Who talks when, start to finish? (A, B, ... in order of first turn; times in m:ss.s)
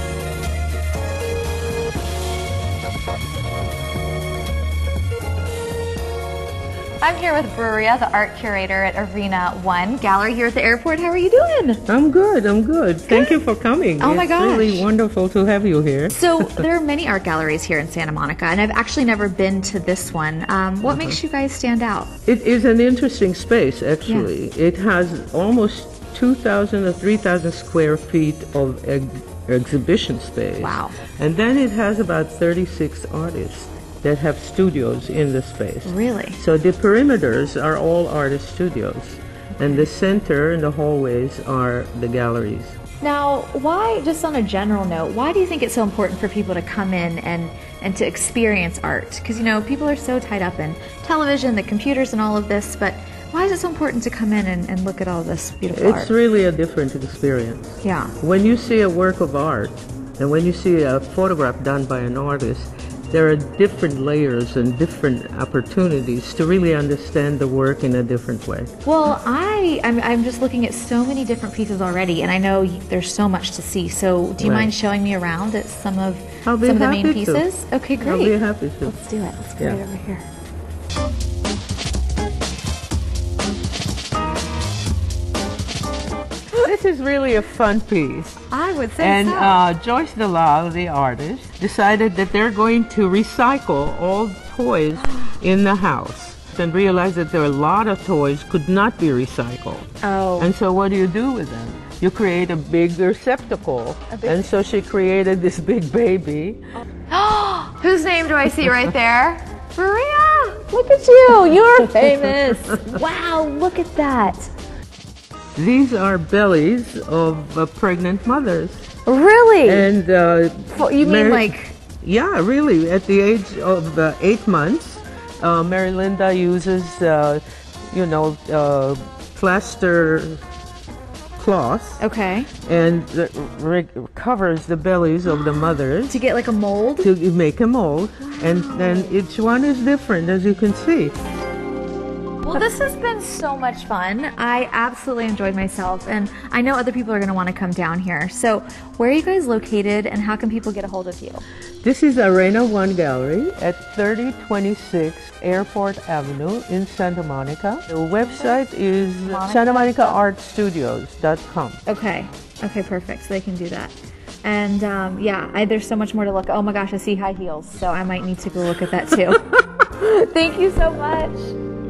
0:07.0-0:11.8 A
0:11.9-0:16.6 B
0:13.0-0:13.4 A
0:14.0-0:14.9 A
0:16.1-0:22.1 A
0:20.8-0:21.2 B
0:22.3-0:42.8 B
0:30.6-0:31.0 A
0:35.8-0:36.4 A
0:43.0-0:56.1 A
0:55.7-1:08.7 B
0:57.8-0:58.1 A
1:08.8-1:20.2 A
1:14.4-1:14.7 B
1:16.4-1:17.4 B
1:18.0-1:19.0 B
1:26.5-1:28.4 B
1:28.5-1:29.6 A
1:29.0-1:46.6 B
1:35.1-1:35.3 A
1:40.0-1:40.5 A
1:44.1-1:44.5 A
1:47.1-1:54.5 A
1:55.6-1:58.9 B
1:59.0-1:59.9 A
1:59.6-2:10.4 B
2:00.7-2:01.8 A
2:11.4-2:12.0 B
2:12.0-2:12.5 A
2:12.6-2:16.2 B
2:15.3-2:17.1 A
2:17.0-2:21.2 B
2:18.2-2:19.1 A
2:22.4-2:31.4 A
2:31.8-2:41.8 B
2:38.3-2:38.6 A
2:39.2-2:40.2 A
2:41.8-2:51.6 A